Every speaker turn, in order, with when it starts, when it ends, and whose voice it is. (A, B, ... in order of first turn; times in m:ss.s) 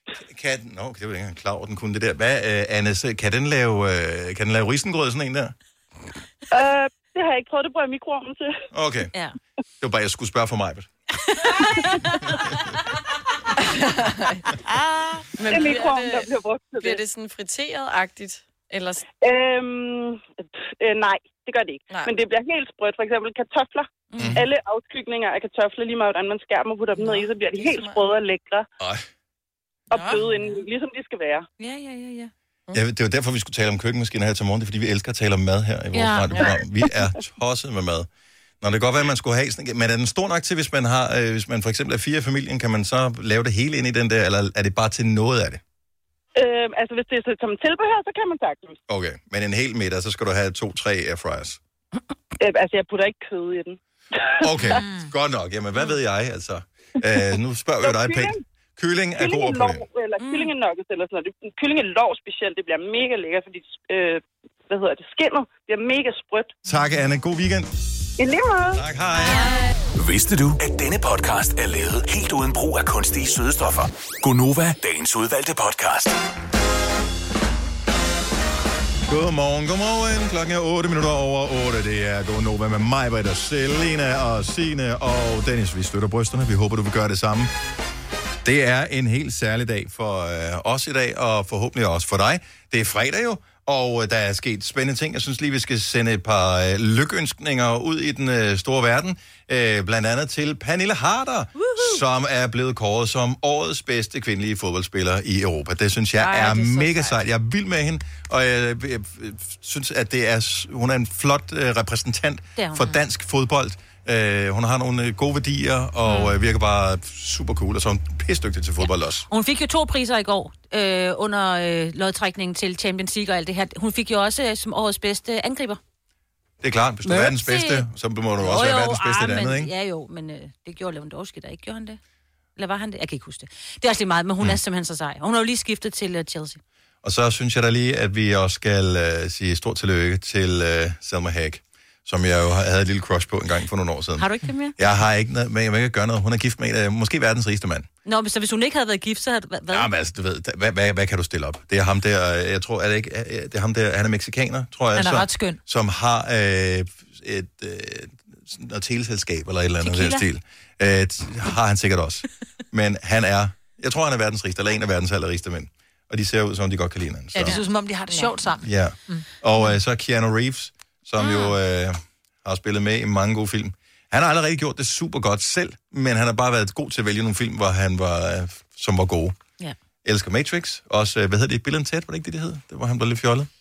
0:00.3-0:05.5 A
0:06.5-0:08.6 B
0:08.7-0:09.1 A
0:09.8-0:10.9 A
0:11.4-0:12.5 C
0:13.6-0:14.4 D
0:14.6-0:15.2 C
0:15.3-0:19.1 D
0:15.5-0:17.0 B
0:19.2-0:28.7 B
0:24.1-0:24.4 C
0:24.2-0:24.4 A
0:27.0-0:28.0 D
0:28.8-0:29.0 A
0:29.9-0:31.4 B
0:31.6-0:32.3 C
0:32.7-0:38.1 A
0:35.9-0:36.6 C
0:38.6-0:45.6 A
0:46.3-0:48.8 B
0:48.9-0:51.6 A
0:52.4-0:54.8 B
0:54.4-0:59.8 A
0:54.7-0:55.1 E
0:57.8-0:58.4 B
0:59.2-1:06.5 B
1:00.2-1:00.5 C
1:06.6-1:07.7 A
1:08.2-1:08.8 B
1:08.7-1:09.6 A
1:09.2-1:09.7 C
1:09.9-1:16.2 F
1:19.1-1:27.5 A
1:28.4-1:59.3 A
1:41.6-1:42.0 C
1:46.2-1:47.2 D
1:52.6-1:52.8 C
1:56.1-1:56.3 C
1:59.3-2:05.8 C
2:06.6-2:09.7 A
2:07.0-2:07.9 C
2:08.4-2:12.0 C
2:12.6-2:16.6 C
2:17.0-2:27.9 A
2:24.2-2:24.7 C
2:28.0-2:29.9 C
2:29.7-2:47.6 A
2:34.9-2:35.6 E
2:39.8-2:40.2 C
2:47.3-2:49.3 E
2:47.5-2:48.4 D
2:48.6-2:59.4 A
3:00.0-3:03.5 A